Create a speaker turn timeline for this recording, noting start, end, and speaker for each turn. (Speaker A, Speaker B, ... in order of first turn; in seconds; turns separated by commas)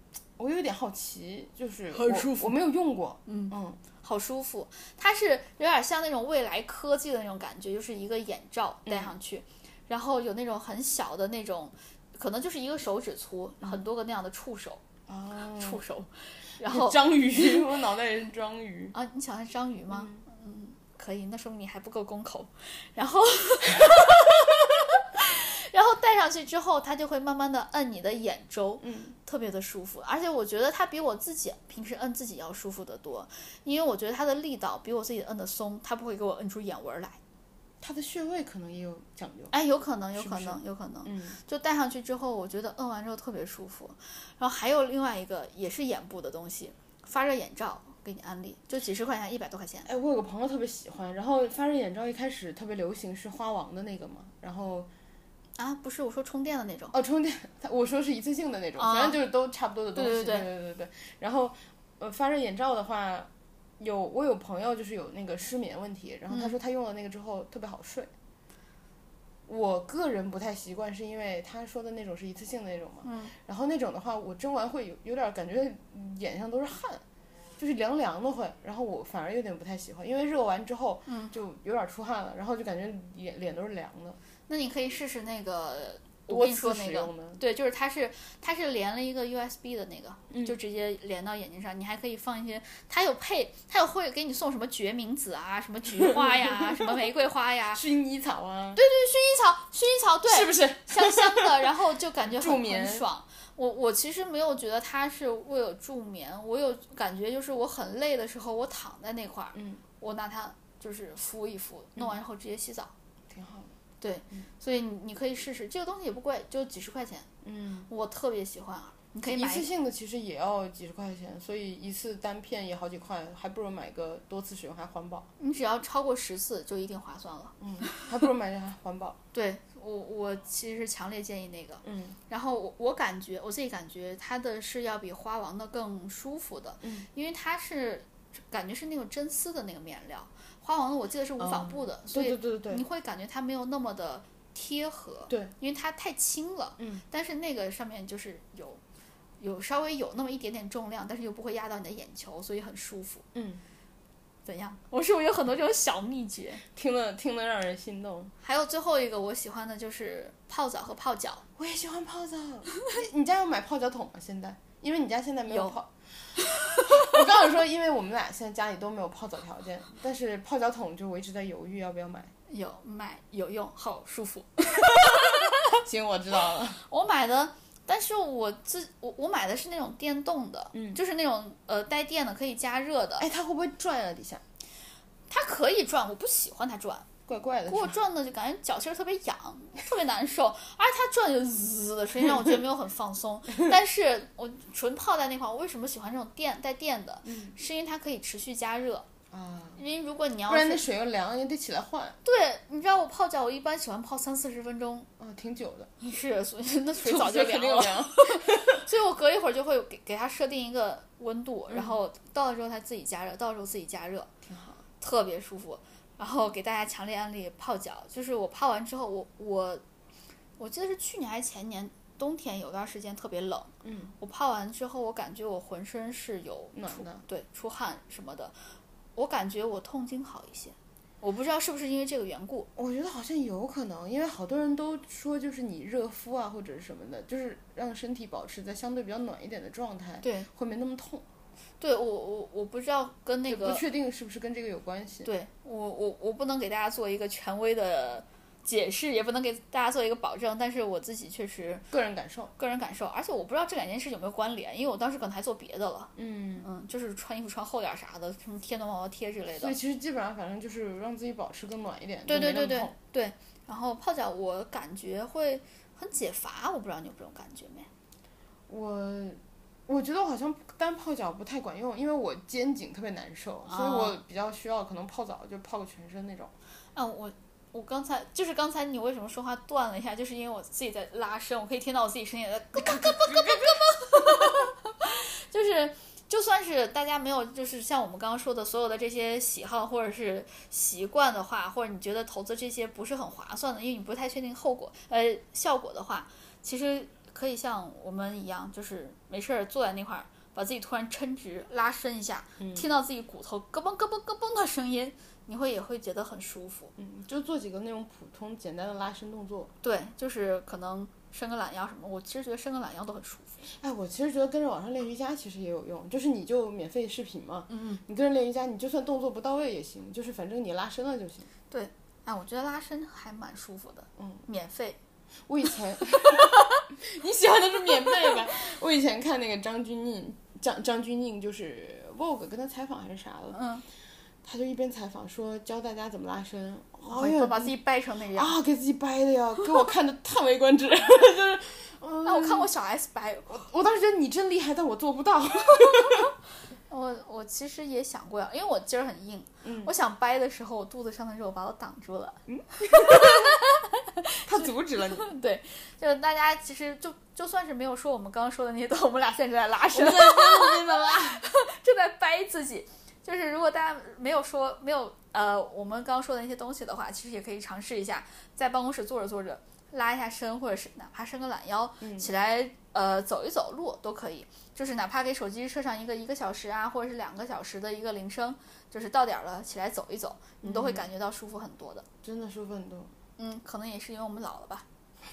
Speaker A: 0.4-3.8, Speaker B: 1.9-2.6, Speaker B: 3.3-14.8, Speaker A: 8.9-9.1, Speaker A: 15.1-15.8, Speaker B: 15.6-17.6, Speaker A: 16.6-18.9, Speaker B: 18.9-37.2, Speaker A: 19.9-20.2, Speaker A: 28.8-29.2, Speaker A: 37.8-39.5, Speaker B: 39.5-49.9, Speaker A: 40.1-41.4, Speaker A: 49.9-54.9, Speaker B: 55.6-57.0, Speaker A: 56.9-68.1, Speaker B: 58.8-59.2, Speaker B: 60.0-60.5, Speaker B: 66.3-66.6, Speaker A: 69.5-77.0, Speaker B: 73.0-73.3, Speaker A: 77.6-84.2, Speaker B: 81.1-81.3, Speaker B: 84.5-97.8, Speaker A: 86.3-87.4, Speaker A: 90.3-90.6, Speaker A: 96.0-97.0, Speaker A: 97.7-98.8, Speaker B: 98.8-112.9, Speaker A: 100.3-103.0, Speaker A: 109.5-109.8, Speaker A: 113.3-113.7, Speaker B: 114.0-117.3, Speaker A: 117.4-117.9, Speaker B: 117.9-119.7, Speaker A: 119.3-125.3, Speaker B: 125.4-128.1, Speaker A: 127.6-129.2, Speaker B: 129.3-148.8, Speaker A: 131.8-132.2, Speaker A: 136.8-137.1, Speaker A: 141.4-142.8, Speaker A: 146.8-147.0, Speaker B: 149.4-153.3, Speaker A: 153.3-153.6, Speaker B: 154.5-156.6, Speaker A: 156.8-158.3, Speaker B: 158.4-161.4, Speaker A: 161.6-172.3, Speaker B: 165.5-165.8, Speaker B: 166.4-167.1, Speaker B: 172.5-175.8, Speaker A: 175.1-176.8, Speaker B: 176.7-183.3, Speaker A: 180.7-181.0, Speaker A: 183.2-184.4, Speaker B: 185.3-187.1, Speaker A: 187.3-188.0, Speaker B: 187.7-199.1, Speaker A: 192.2-192.6, Speaker A: 197.2-197.6, Speaker A: 199.3-199.8, Speaker B: 199.8-200.8, Speaker A: 200.5-202.2, Speaker B: 202.2-205.1, Speaker A: 205.2-205.9, Speaker B: 206.0-214.3, Speaker A: 207.0-208.8, Speaker A: 214.5-214.8, Speaker B: 215.0-219.8, Speaker B: 220.6-228.5, Speaker A: 223.8-224.1, Speaker A: 226.7-227.2, Speaker B: 229.2-232.7, Speaker A: 232.8-241.2, Speaker B: 240.2-240.5, Speaker B: 241.8-243.8, Speaker A: 243.5-245.3, Speaker B: 245.2-251.8, Speaker A: 251.9-252.5, Speaker B: 252.6-259.8, Speaker A: 256.2-256.7, Speaker A: 259.6-262.9, Speaker B: 262.3-267.9, Speaker A: 268.7-276.5, Speaker B: 273.7-274.2, Speaker B: 276.9-306.9, Speaker A: 282.9-283.7, Speaker A: 302.6-302.9, Speaker A: 307.0-309.7, Speaker B: 309.8-313.6, Speaker A: 313.8-321.5, Speaker B: 317.7-318.0, Speaker B: 321.7-325.0, Speaker A: 324.2-324.4, Speaker A: 325.5-333.6, Speaker B: 326.1-326.8, Speaker B: 333.5-333.8, Speaker A: 334.4-337.8, Speaker B: 337.0-338.5, Speaker A: 338.3-342.7, Speaker B: 342.2-343.6, Speaker A: 343.5-346.3, Speaker B: 346.9-382.1, Speaker A: 349.6-349.9, Speaker A: 352.5-353.6, Speaker A: 354.4-355.3, Speaker A: 359.9-361.5, Speaker A: 372.0-372.3, Speaker A: 380.6-381.1, Speaker A: 382.2-383.1, Speaker B: 383.4-384.9